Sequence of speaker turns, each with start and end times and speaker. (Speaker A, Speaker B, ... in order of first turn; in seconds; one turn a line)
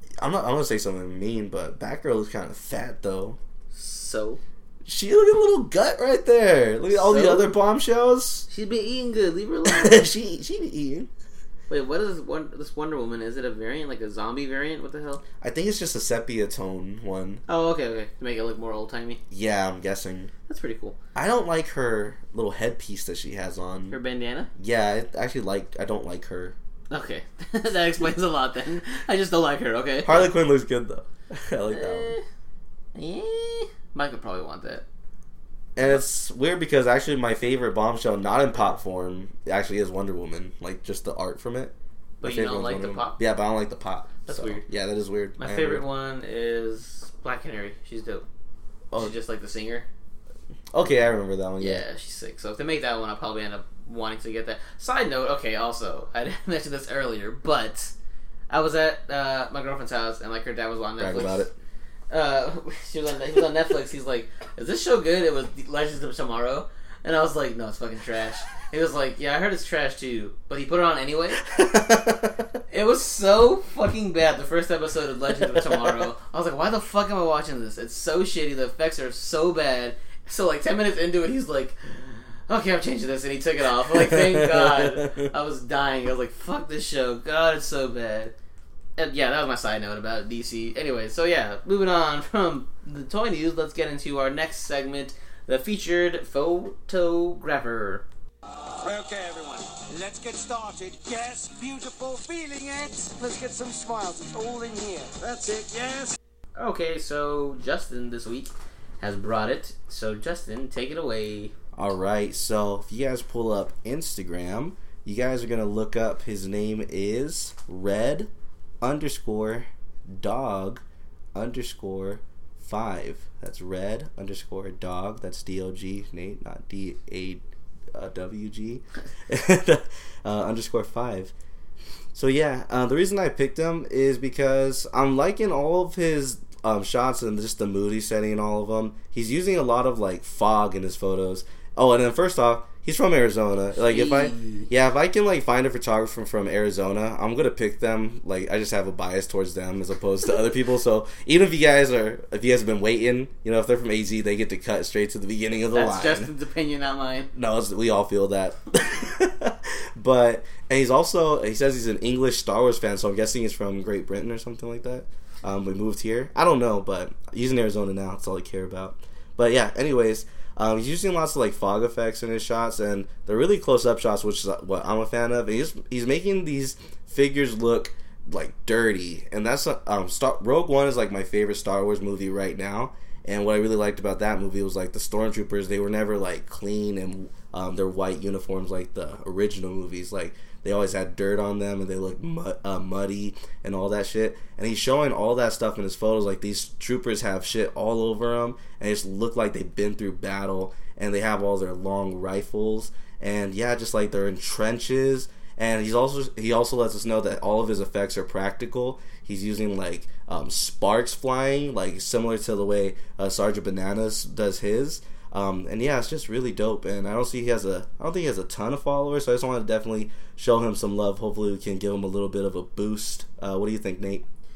Speaker A: 0.2-3.4
Speaker B: 3.7-4.4
Speaker A: 4.8-8.5
Speaker B: 6.9-7.5
Speaker B: 8.5-10.1
Speaker A: 9.6-11.1
Speaker B: 11.7-15.2
Speaker A: 15.4-17.4
Speaker B: 17.5-19.2
Speaker A: 19.3-20.3
Speaker B: 20.5-21.0
Speaker A: 21.1-24.0
Speaker B: 23.9-24.5
Speaker A: 24.6-26.6
Speaker B: 26.9-30.3
Speaker A: 30.0-32.1
Speaker B: 31.7-32.2
Speaker B: 32.9-34.8
Speaker A: 35.8-45.8
Speaker B: 42.2-43.2
Speaker B: 44.2-44.6
Speaker B: 45.4-48.2
Speaker B: 49.0-49.9
Speaker A: 50.7-51.8
Speaker B: 51.6-57.9
Speaker B: 58.5-61.5
Speaker A: 61.0-61.5
Speaker B: 62.1-71.4
Speaker A: 71.4-72.3
Speaker B: 72.7-88.3
Speaker A: 75.4-76.1
Speaker A: 83.9-85.3
Speaker B: 89.0-98.0
Speaker C: 98.8-106.1
Speaker B: 106.5-111.5
Speaker A: 111.7-118.3
Speaker A: 118.8-120.8
Speaker A: 121.3-127.4
Speaker A: 127.9-131.3
Speaker A: 132.1-156.3
Speaker B: 143.7-144.7
Speaker B: 155.7-157.3
Speaker A: 157.3-224.2